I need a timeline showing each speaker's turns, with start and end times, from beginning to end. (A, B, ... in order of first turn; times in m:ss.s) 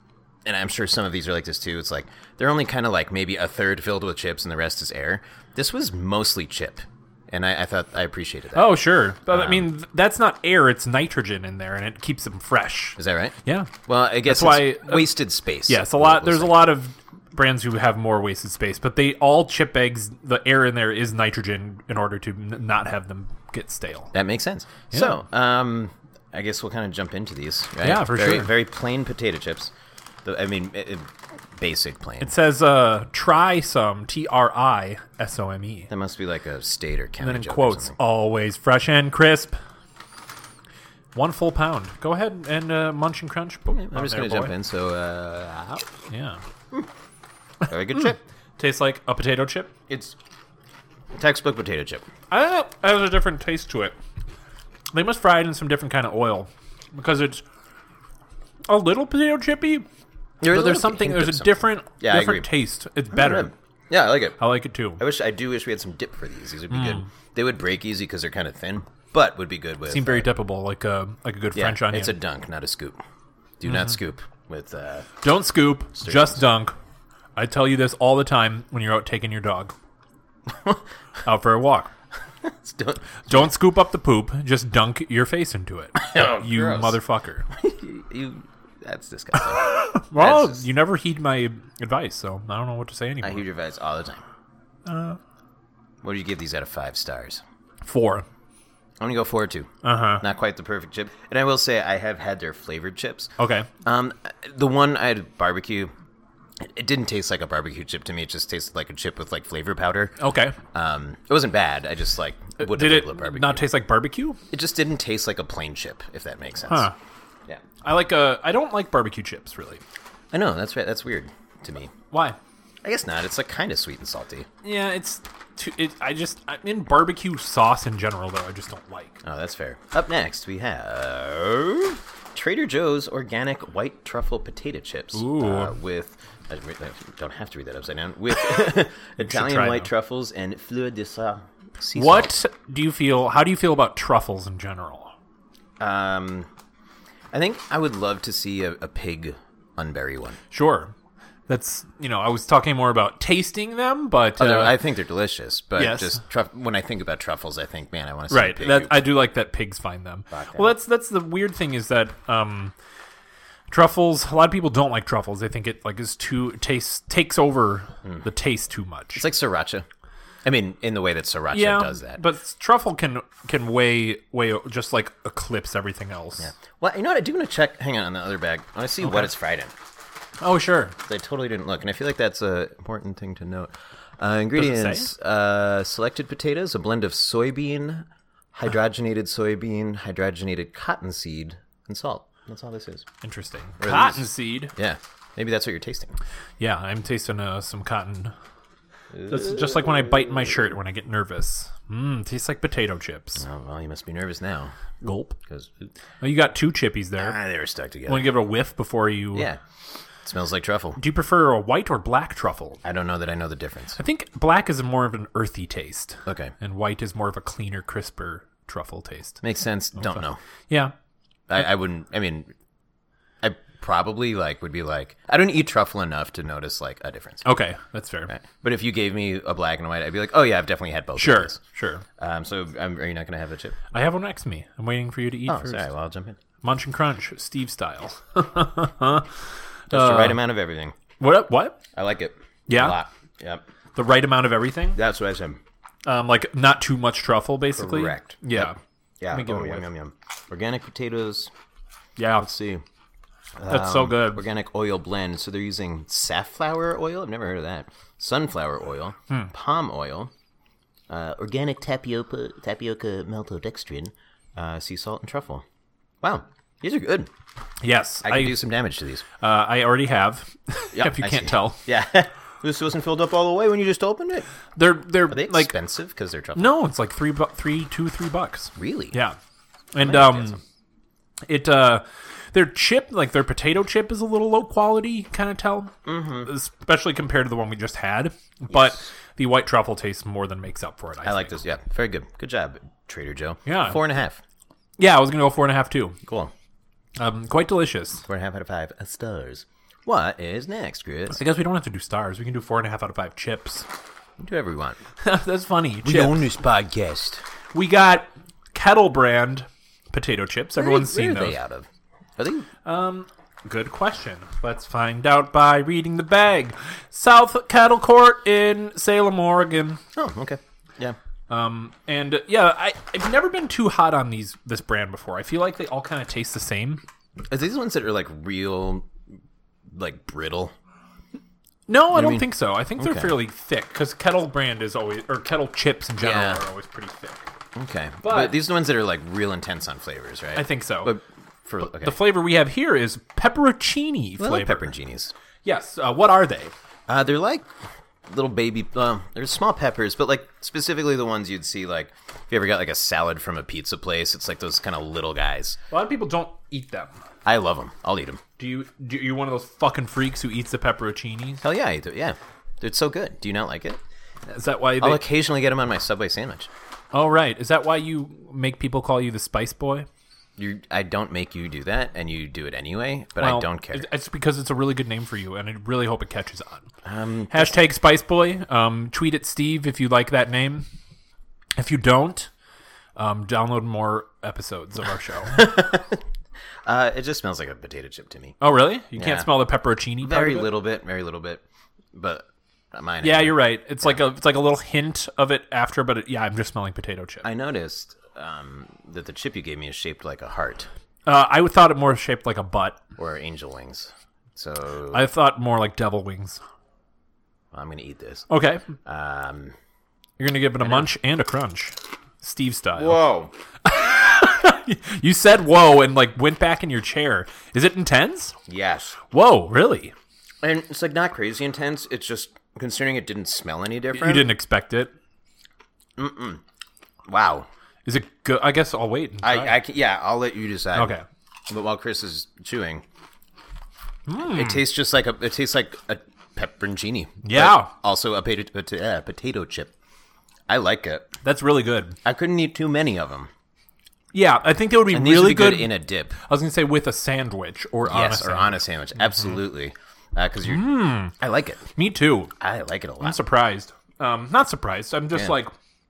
0:00.4-0:09.7 A
0:08.5-0:24.1 B
0:13.0-0:16.8 A
0:24.1-0:29.7 A
0:24.9-0:25.2 B
0:27.8-0:28.5 B
0:30.2-0:32.4 A
0:32.2-0:35.9 B
0:35.9-0:38.0 A
0:37.2-0:39.6 B
0:41.2-0:44.6 B
0:43.7-0:45.8 A
0:46.1-0:46.4 B
0:47.7-0:48.2 A
0:48.0-0:49.7 B
0:49.9-0:50.2 A
0:51.1-0:52.1 A
0:52.3-0:54.0 B
0:54.9-0:57.4 B
0:58.7-0:59.8 B
1:00.4-1:02.5 A
1:00.5-1:03.5 B
1:03.1-1:04.4 A
1:04.4-1:05.0 B
1:05.0-1:10.3 A
1:06.7-1:07.0 B
1:09.9-1:12.2 B
1:11.6-1:13.0 A
1:13.6-1:15.1 A
1:15.2-1:16.8 B
1:15.9-1:16.5 A
1:17.4-1:19.7 B
1:21.2-1:21.9 B
1:22.4-1:23.5 A
1:23.2-1:27.5 B
1:26.0-1:27.0 A
1:27.5-1:30.7 A
1:29.3-1:33.4 B
1:33.2-1:34.2 A
1:34.9-1:35.2 B
1:36.0-1:37.4 A
1:37.8-1:38.3 B
1:39.0-1:43.3 A
1:39.8-1:40.2 B
1:43.4-1:43.7 B
1:43.8-1:45.9 A
1:46.6-1:50.2 A
1:50.2-1:50.6 B
1:50.7-1:53.7 A
1:52.6-1:54.4 B
1:54.5-1:56.9 A
1:56.7-1:56.9 B
1:57.8-1:59.8 B
2:00.3-2:01.9 A
2:02.1-2:02.4 B
2:02.8-2:04.5 A
2:04.6-2:09.2 B
2:09.2-2:22.3 A
2:15.1-2:15.8 B
2:19.2-2:19.9 B
2:22.0-2:25.1 B
2:25.8-2:26.5 A
2:27.3-2:30.4 A
2:30.5-2:30.9 B
2:31.5-2:34.8 B
2:34.4-2:39.1 A
2:35.8-2:36.2 B
2:38.3-2:42.7 B
2:40.3-2:40.8 A
2:43.7-2:49.3 B
2:49.2-2:49.8 A
2:50.4-2:52.2 A
2:51.5-2:56.5 B
2:56.4-2:59.7 A
2:59.0-2:59.3 B
3:00.4-3:01.0 B
3:01.1-3:13.0 A
3:04.6-3:05.1 B
3:13.2-3:14.7 B
3:13.8-3:16.2 A
3:16.6-3:18.3 B
3:19.1-3:19.7 A
3:19.2-3:23.4 B
3:23.4-3:24.7 A
3:25.0-3:25.4 B
3:25.5-3:25.9 A
3:26.2-3:27.4 B
3:27.2-3:28.4 A
3:28.1-3:29.5 B
3:29.3-3:29.6 A
3:30.2-3:31.0 A
3:31.0-3:32.8 B
3:32.8-3:34.0 A
3:34.0-3:39.4 B
3:36.3-3:36.5 A
3:39.4-3:40.4 A
3:40.0-3:40.9 B
3:41.5-3:42.5 A
3:43.4-3:47.5 A
3:47.4-3:48.3 B
3:48.3-3:51.6 A
3:51.2-3:52.0 B
3:52.2-3:53.8 A
3:53.9-3:55.9 B
3:55.5-3:56.4 A
3:56.6-3:59.3 B
3:59.9-4:00.4 B
3:59.9-4:01.0 A
4:01.2-4:01.8 B
4:02.0-4:03.6 A
4:02.7-4:03.0 B
4:04.0-4:05.0 B
4:04.9-4:05.6 A
4:06.1-4:08.8 B
4:07.7-4:11.5 A
4:09.3-4:09.9 B
4:12.2-4:12.5 B
4:12.4-4:12.8 A
4:13.6-4:20.3 A
4:13.7-4:14.4 B
4:21.1-4:25.6 A
4:26.2-4:27.3 A
4:27.8-4:28.6 B
4:28.2-4:29.2 A
4:29.4-4:31.8 B
4:30.9-4:34.5 A
4:34.8-4:35.7 B
4:35.3-4:36.8 A
4:36.6-4:39.4 B
4:38.8-4:39.2 A
4:39.9-4:40.6 B
4:40.0-4:40.6 A
4:41.5-4:51.6 B
4:46.0-4:46.5 A
4:48.7-4:49.1 A
4:51.2-4:54.4 A
4:53.7-4:54.0 B
4:55.0-4:56.2 B
4:56.3-4:56.5 A
4:57.2-4:58.3 B
4:58.3-5:01.4 A
5:01.3-5:03.9 B
5:04.4-5:05.0 A
5:05.2-5:06.5 B
5:06.0-5:07.4 A
5:07.7-5:11.6 B
5:10.8-5:12.7 A
5:12.8-5:20.0 B
5:20.2-5:21.2 A
5:21.5-5:27.0 B
5:27.5-5:29.1 A
5:29.9-5:30.7 A
5:31.9-5:37.4 B
5:32.1-5:33.4 A
5:36.2-5:36.6 A
5:37.8-5:42.3 A
5:38.2-5:38.6 B
5:40.6-5:41.2 B
5:42.0-5:44.9 B
5:44.4-5:45.3 A
5:45.6-5:46.7 B
5:47.1-5:47.7 A
5:48.3-5:55.8 A
5:55.9-5:57.2 B
5:57.5-5:58.4 A
5:58.6-6:01.6 B
6:01.6-6:04.0 A
6:04.5-6:05.2 B
6:05.0-6:06.7 A
6:07.1-6:10.1 B
6:10.6-6:14.1 A
6:13.4-6:16.9 B
6:17.0-6:17.8 A
6:17.5-6:20.9 B
6:21.8-6:22.5 B
6:23.2-6:25.6 B
6:25.5-6:26.2 A
6:26.8-6:28.6 A
6:28.6-6:30.7 B
6:29.2-6:29.6 A
6:30.2-6:31.6 A
6:32.1-6:34.1 A
6:33.2-6:37.5 B
6:37.4-6:40.9 A
6:41.3-6:43.0 B
6:43.2-6:45.3 A
6:45.1-6:46.6 B
6:47.7-6:48.5 A
6:48.5-6:48.9 B
6:49.0-6:49.7 A
6:50.4-6:53.2 B
6:50.8-6:51.1 A
6:53.0-6:53.5 A
6:53.8-6:58.6 B
6:58.7-6:59.2 A
6:59.3-7:00.1 B
7:00.6-7:04.6 A
7:04.1-7:05.1 B
7:06.2-7:06.6 A
7:07.3-7:07.7 A
7:08.1-7:09.8 B
7:09.4-7:11.2 A
7:11.0-7:11.2 B
7:11.7-7:13.0 A
7:14.3-7:14.8 B
7:14.4-7:19.9 A
7:17.4-7:17.9 B
7:20.7-7:21.3 A
7:21.4-7:22.2 B
7:22.2-7:23.5 A
7:24.3-7:29.6 B
7:25.1-7:26.4 A
7:28.1-7:31.9 A
7:30.6-7:31.3 B
7:32.0-7:32.5 B
7:32.6-7:33.4 A
7:33.2-7:35.7 B
7:35.3-7:35.6 A